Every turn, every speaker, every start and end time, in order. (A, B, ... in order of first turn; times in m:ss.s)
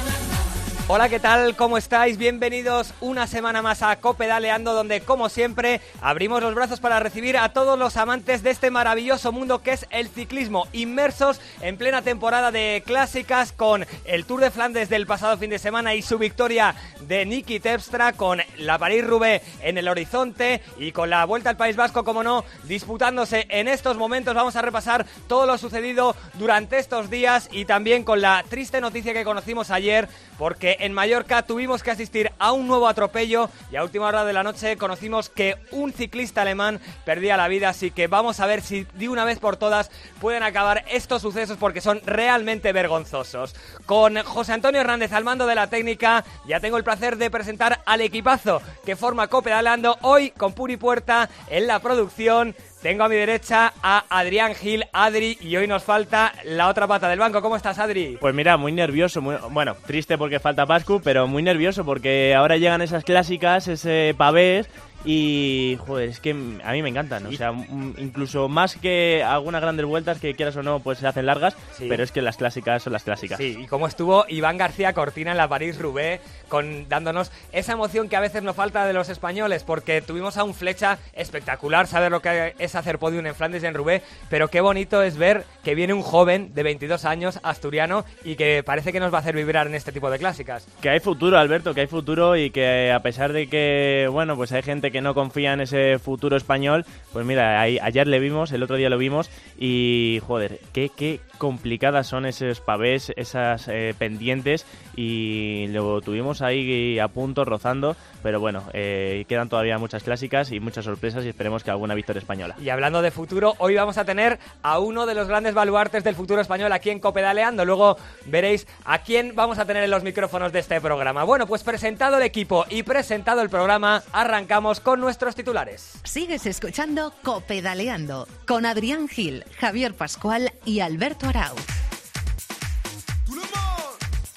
0:00.9-0:58.2 A
0:58.2-1:13.4 B
1:11.8-1:12.0 A
1:13.3-1:30.6 A
1:30.8-1:52.6 B
1:52.6-2:06.0 A
2:06.0-2:11.6 C